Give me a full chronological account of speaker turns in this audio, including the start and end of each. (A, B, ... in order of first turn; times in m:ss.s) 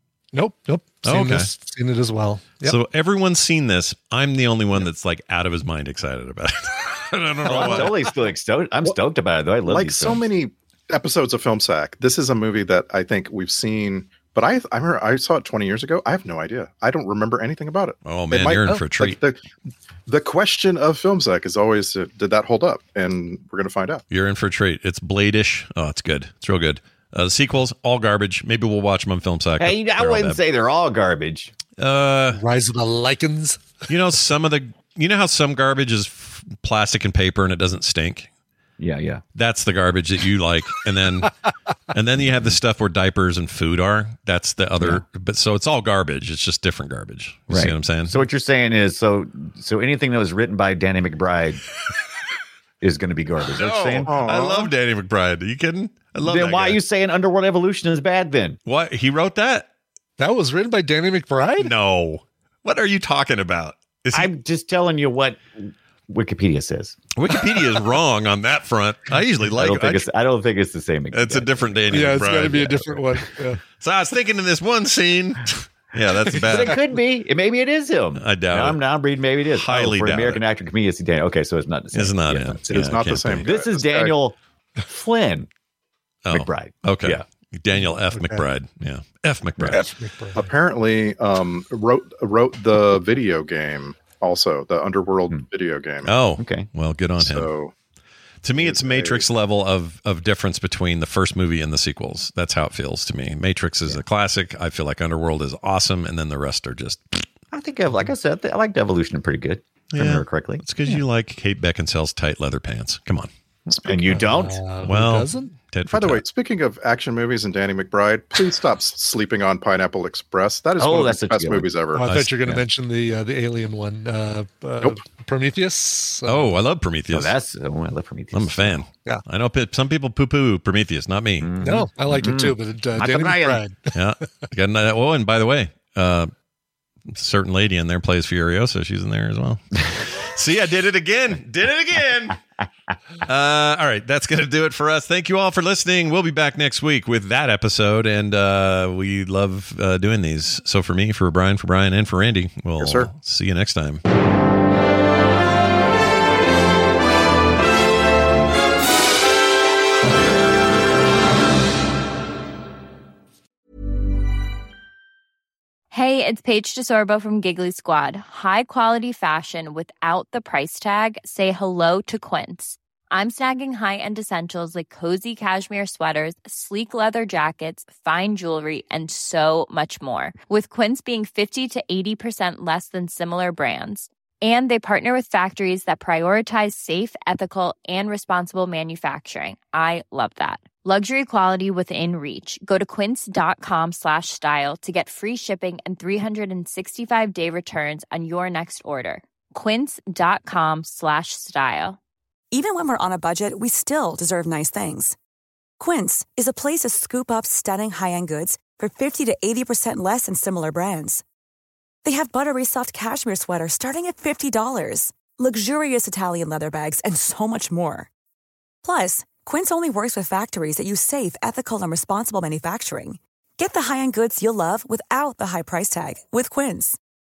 0:00.3-0:02.8 A
0:01.0-0:01.5 B
0:02.6-0:08.0 B
0:07.4-0:10.2 C
0:09.7-0:19.4 D
0:18.0-0:19.2 B
0:20.1-0:24.0 D
0:24.1-0:30.4 B
0:29.6-0:31.5 C
0:31.8-0:32.4 B
0:32.4-0:33.7 A
0:33.9-0:38.3 B
0:38.8-0:39.2 C
0:39.4-0:41.3 B
0:41.9-0:48.3 B
0:42.2-0:42.5 C
0:44.8-0:45.0 C
0:47.5-0:51.6 C
0:52.8-0:54.2 C
0:53.6-0:56.8 B
0:54.1-0:54.7 D
0:56.2-0:58.6 C
0:58.7-0:59.7 B
1:00.2-1:01.7 A
1:01.6-1:04.3 B
1:04.1-1:07.0 C
1:07.2-1:10.1 B
1:09.6-1:13.2 C
1:11.1-1:12.7 B
1:11.9-1:13.6 A
1:13.8-1:16.8 B
1:16.3-1:22.6 C
1:18.2-1:18.8 B
1:19.5-1:20.4 B
1:21.9-1:23.5 B
1:22.7-1:24.1 D
1:23.4-1:25.5 C
1:26.2-1:29.9 B
1:26.3-1:27.2 C
1:27.9-1:28.4 A
1:29.6-1:29.8 C
1:29.8-1:30.5 A
1:30.4-1:36.1 D
1:36.0-1:37.5 B
1:36.4-1:36.7 C
1:37.2-1:37.7 D
1:38.4-1:47.3 B
1:38.6-1:39.2 D
1:47.5-1:50.6 C
1:49.9-1:53.3 B
1:53.7-1:54.6 C
1:54.1-1:55.5 A
1:54.8-1:56.2 B
1:55.9-2:02.0 D
2:00.8-2:01.7 C
2:02.0-2:06.5 A
2:06.2-2:07.3 B
2:07.1-2:08.8 C
2:08.3-2:11.5 B
2:11.4-2:13.6 C
2:11.6-2:13.9 A
2:13.9-2:16.3 B
2:17.1-2:22.4 B
2:23.3-2:34.0 B
2:32.8-2:33.1 D
2:45.9-3:22.0 E
3:22.5-3:25.2 F
3:25.8-3:31.2 F
3:32.0-3:38.1 F
3:38.8-3:47.0 F